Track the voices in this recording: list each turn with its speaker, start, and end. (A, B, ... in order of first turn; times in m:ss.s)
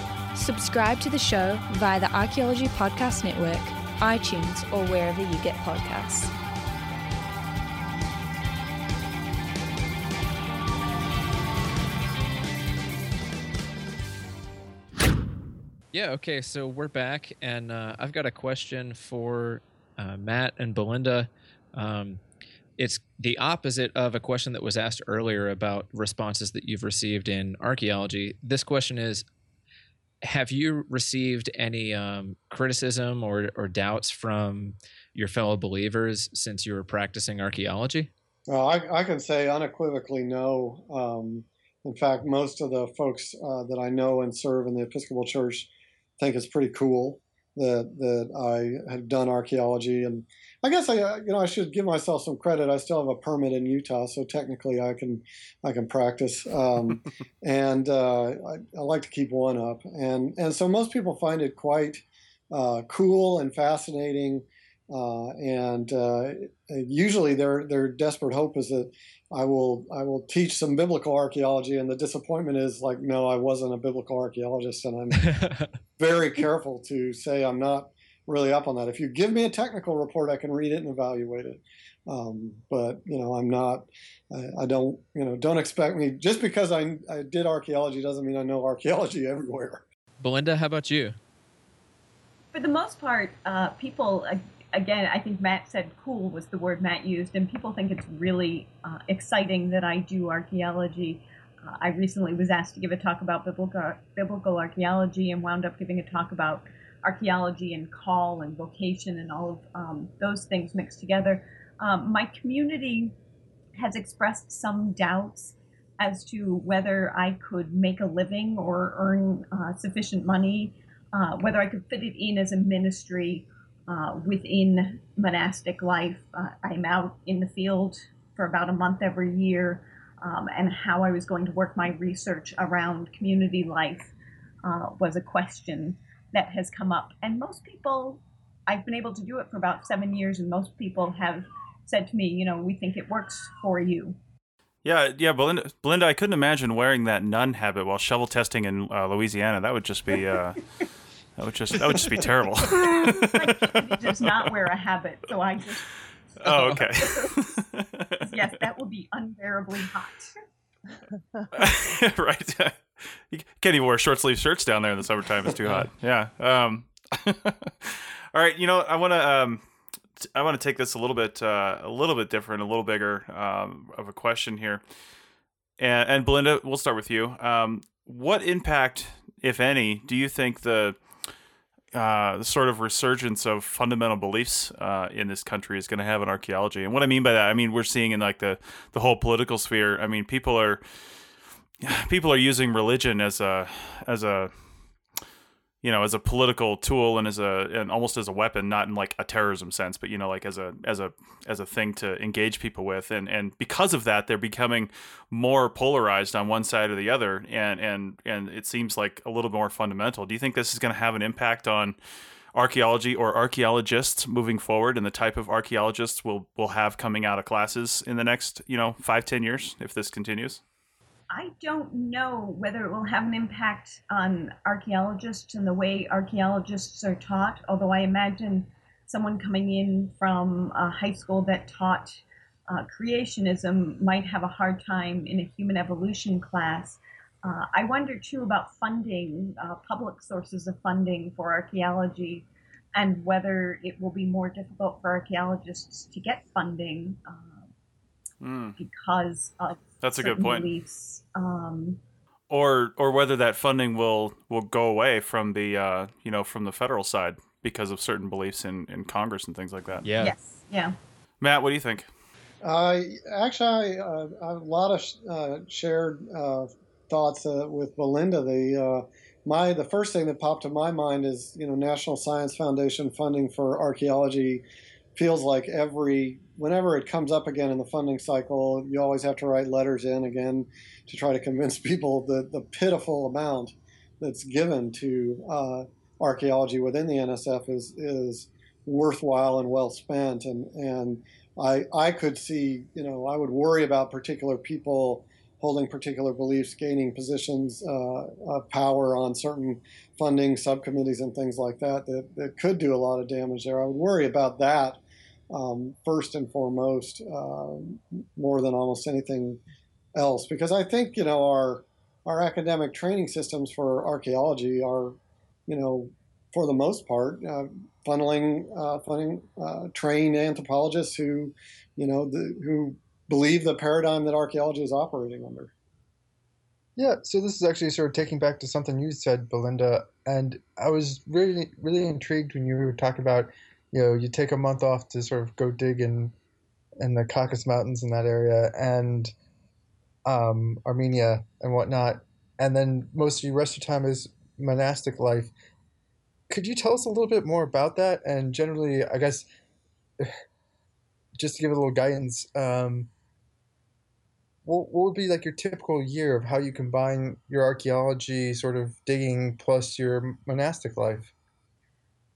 0:00.3-0:06.3 A
0:15.9-0:22.2 B
0:22.8-0:29.2 B
0:30.2-0:38.1 B
0:38.5-0:45.7 C
0:46.2-1:15.3 C
1:16.0-1:29.8 C
1:30.2-1:31.2 B
1:32.5-1:53.1 D
1:53.8-2:14.1 D
2:14.6-2:24.2 D
2:24.8-2:30.7 E
2:31.4-2:34.5 E
2:32.7-2:35.9 D
2:36.4-2:37.6 D
2:36.4-2:38.2 E
2:38.2-2:40.3 D
2:41.5-2:49.6 E
2:50.2-2:54.8 E
2:55.8-3:01.0 E
3:01.9-3:10.8 E
3:11.8-3:14.5 E
3:15.8-3:32.0 E
3:32.5-3:40.6 E
3:41.3-4:07.7 D
4:08.4-4:08.8 E
4:08.8-4:12.0 D
4:10.0-4:10.7 E
4:12.5-4:20.0 E
4:20.0-4:20.3 B
4:20.2-4:21.0 D
4:21.4-4:22.1 E
4:22.6-4:34.6 C
4:35.1-5:09.6 C
5:10.1-5:25.7 C
5:27.0-5:36.3 F
5:37.0-5:39.3 F
5:40.2-5:45.5 F
5:46.5-5:49.5 F
5:51.4-5:53.1 F
5:54.6-6:01.3 F